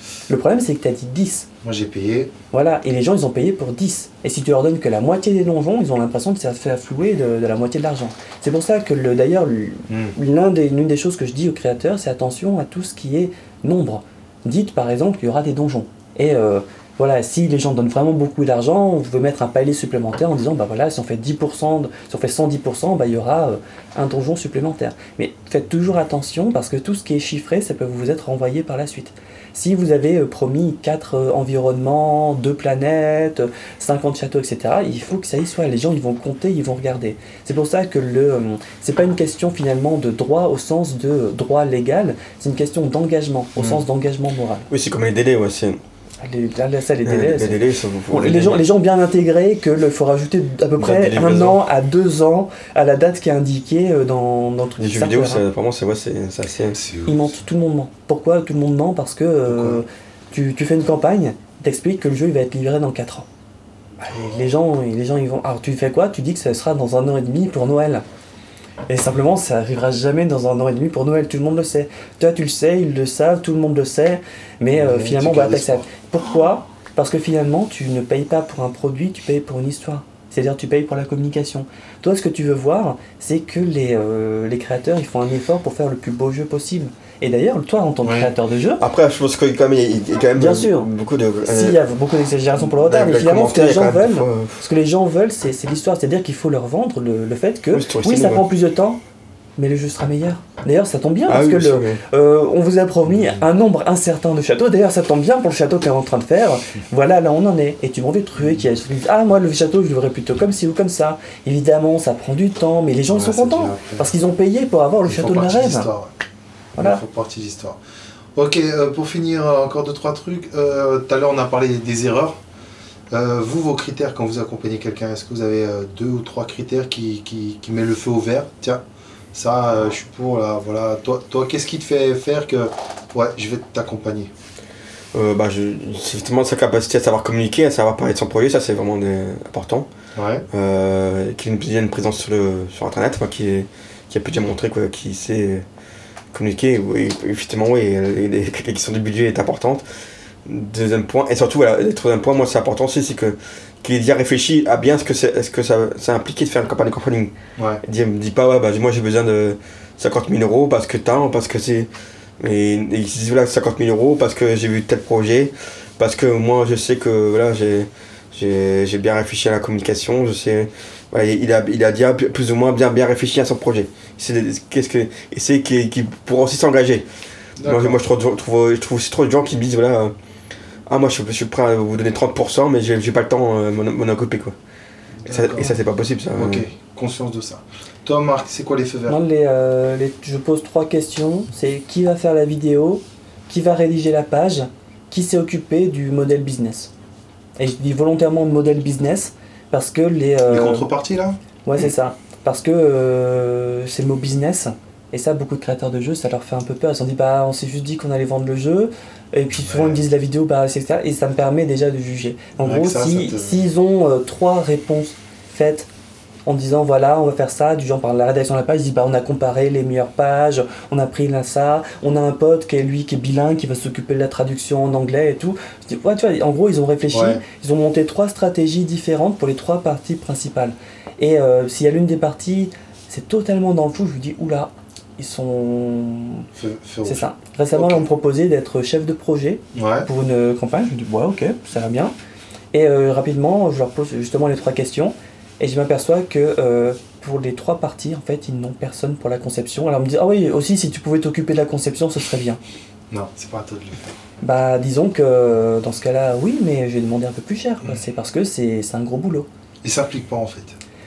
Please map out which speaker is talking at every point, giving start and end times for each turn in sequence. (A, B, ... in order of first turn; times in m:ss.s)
0:00.3-0:01.5 A
0:01.6-0:02.3 B
0:02.5-0:44.7 A
0:09.9-0:10.2 B
0:43.6-0:43.8 C
0:44.7-0:45.8 C
0:46.2-0:55.4 A
0:47.0-0:48.6 C
0:50.8-0:51.6 C
0:54.8-0:56.8 C
0:56.7-0:57.2 B
0:57.0-1:03.3 A
0:59.4-0:59.8 B
1:04.0-1:08.0 A
1:08.9-1:28.8 A
1:14.7-1:15.8 B
1:28.0-1:28.3 B
1:28.8-1:31.8 C
1:30.4-1:30.9 A
1:31.4-1:39.0 A
1:32.6-1:34.6 C
1:37.7-1:38.4 C
1:39.6-1:55.9 A
1:41.3-1:42.0 C
1:53.1-1:54.1 B
1:55.0-1:56.1 B
1:56.8-1:57.0 A
1:56.8-1:57.8 B
1:58.3-2:02.4 B
2:03.1-2:08.8 B
2:09.3-2:14.3 B
2:15.1-2:19.9 C
2:20.1-2:20.4 B
2:20.5-2:25.6 C
2:26.3-2:29.8 C
2:30.4-2:41.9 C
2:37.6-2:37.8 B
2:42.4-2:57.0 C
2:57.6-2:58.0 B
2:57.6-3:00.1 C
3:00.9-3:04.6 C
3:05.2-3:05.8 B
3:05.3-3:06.7 C
3:06.3-3:09.2 B
3:09.1-3:16.9 A
3:17.6-3:20.9 A
3:20.5-3:21.4 B
3:21.6-3:35.9 A
3:29.6-3:30.0 B
3:32.6-3:33.6 B
3:36.5-3:56.5 A
3:47.1-3:47.4 B
3:56.6-3:58.0 B
3:57.0-4:02.1 A
3:59.7-4:00.1 B
4:02.7-4:12.6 A
4:13.1-4:14.1 B
4:14.4-4:19.5 A
4:19.8-4:20.8 B